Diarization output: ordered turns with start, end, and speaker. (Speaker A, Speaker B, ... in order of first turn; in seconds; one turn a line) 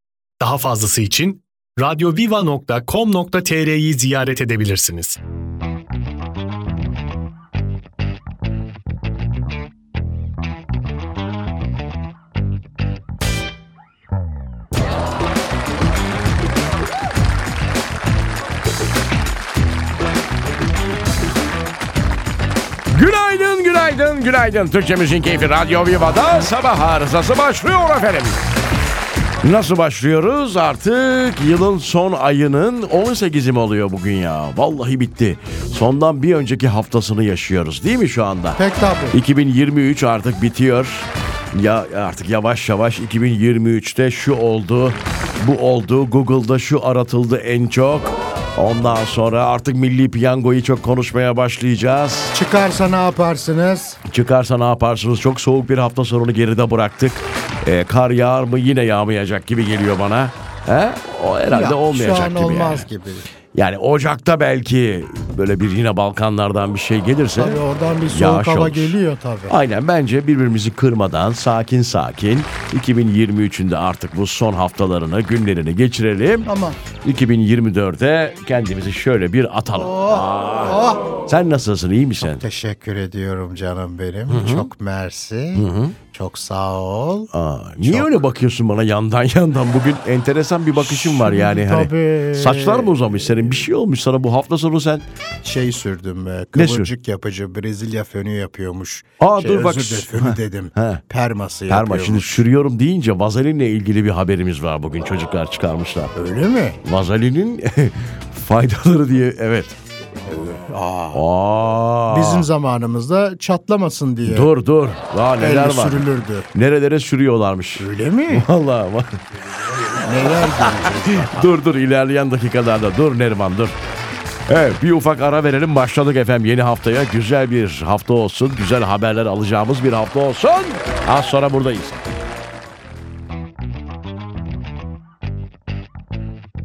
Speaker A: 0.4-5.2
Speaker B: 22.9-28.4
Speaker B: 29.4-38.6
Speaker C: 38.6-39.2
Speaker B: 39.1-52.3
Speaker C: 52.3-54.0
Speaker B: 54.0-62.9
Speaker C: 61.5-63.3
Speaker B: 63.5-76.5
Speaker C: 67.4-69.5
Speaker C: 76.5-76.8
Speaker B: 77.0-82.4
Speaker C: 79.8-81.0
Speaker C: 82.2-88.1
Speaker B: 84.3-84.7
Speaker B: 85.5-86.0
Speaker B: 87.3-95.0
Speaker C: 90.8-93.4
Speaker C: 95.4-102.5
Speaker B: 96.5-96.9
Speaker B: 99.2-101.0
Speaker B: 101.7-106.1
Speaker C: 106.2-106.8
Speaker B: 106.8-109.8
Speaker C: 110.3-111.2
Speaker B: 111.1-112.5
Speaker C: 112.1-114.5
Speaker B: 114.3-119.2
Speaker C: 115.4-116.5
Speaker C: 117.8-118.5
Speaker B: 119.8-123.8
Speaker C: 120.0-121.5
Speaker B: 124.5-132.1